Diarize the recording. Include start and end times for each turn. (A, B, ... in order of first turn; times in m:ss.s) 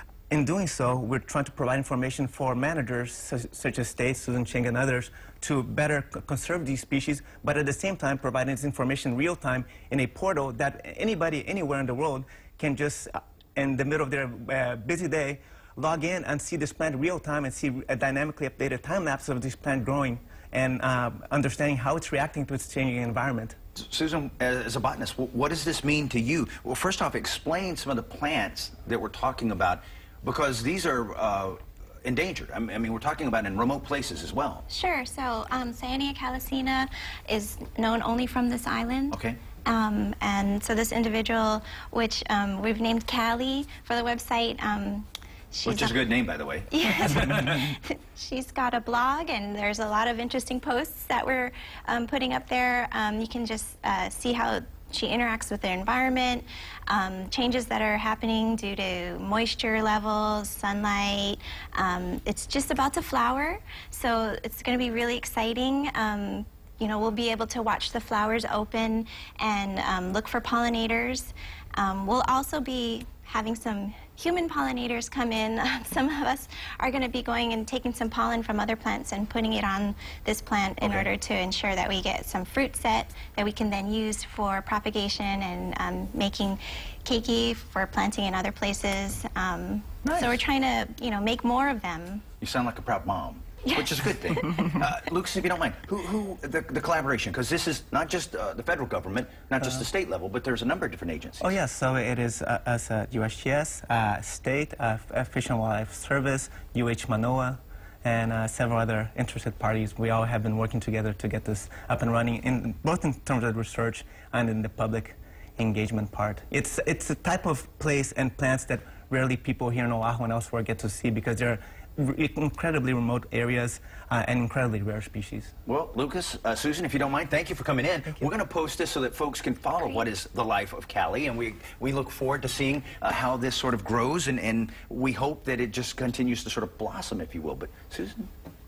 0:00.3-0:23.6 A
0:23.8-0:34.6 B
0:34.7-0:46.0 C
0:39.1-0:39.4 B
0:45.6-0:47.6 B
0:46.7-1:32.2 C
1:30.0-1:30.4 B
1:32.4-1:41.5 B
1:33.7-1:34.8 C
1:41.4-2:05.5 A
2:05.7-2:18.3 B